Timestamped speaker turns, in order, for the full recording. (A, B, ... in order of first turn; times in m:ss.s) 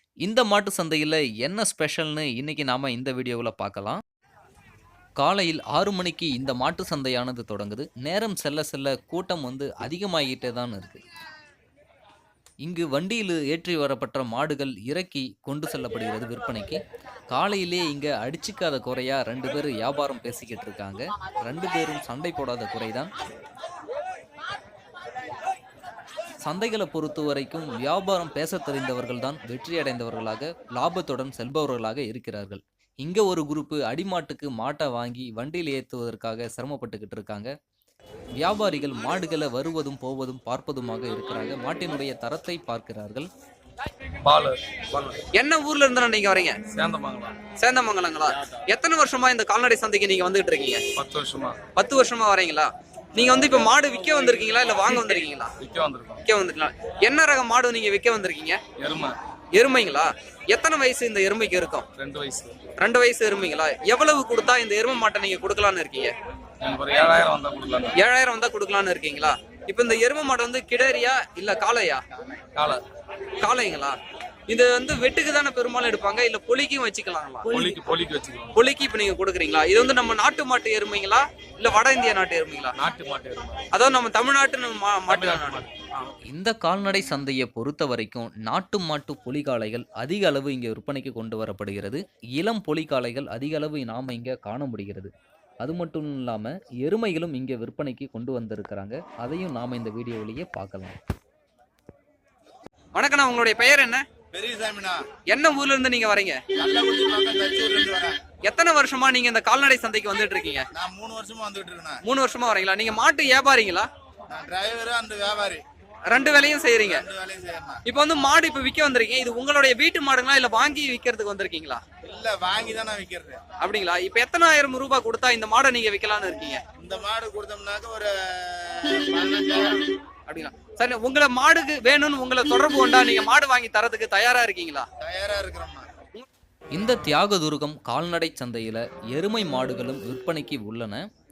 0:00.2-0:04.0 A
0:05.2-0:11.0 A
0:12.6-0:16.8 A
0:17.3-0:23.1 A
0:26.4-0:37.5 A
0:38.4-0:43.3 A
0:44.2-0:45.2 B
0:45.3-0:46.7 C
0:46.7-0:47.4 B
0:47.6-0:50.8 C
0:51.0-0:51.6 B
0:51.7-0:55.5 C
0:55.6-0:56.2 B
0:56.2-0:58.6 C
0:58.8-0:59.1 B
0:59.6-1:01.9 C
1:02.0-1:02.5 B
1:02.8-1:06.1 C
1:06.6-1:07.9 B
1:08.0-1:12.0 C
1:13.4-1:14.0 C
1:14.5-1:17.6 C
1:17.5-1:18.5 B
1:18.5-1:22.8 C
1:22.8-1:23.6 B
1:23.7-1:26.0 C
1:25.1-1:25.7 B
1:26.2-1:35.1 A
1:35.6-1:41.0 A
1:42.9-1:44.0 C
1:44.3-1:45.0 D
1:45.3-1:46.4 C
1:46.6-1:48.2 D
1:48.4-1:50.7 C
1:50.8-1:52.0 D
1:52.0-1:53.9 C
1:54.3-1:55.6 D
1:56.1-1:57.0 C
1:56.8-1:57.8 D
1:57.8-2:01.8 C
2:02.1-2:03.4 D
2:03.6-2:06.6 C
2:06.8-2:08.1 D
2:08.7-2:09.7 D
2:10.3-2:14.9 C
2:15.0-2:15.9 D
2:16.7-2:21.0 A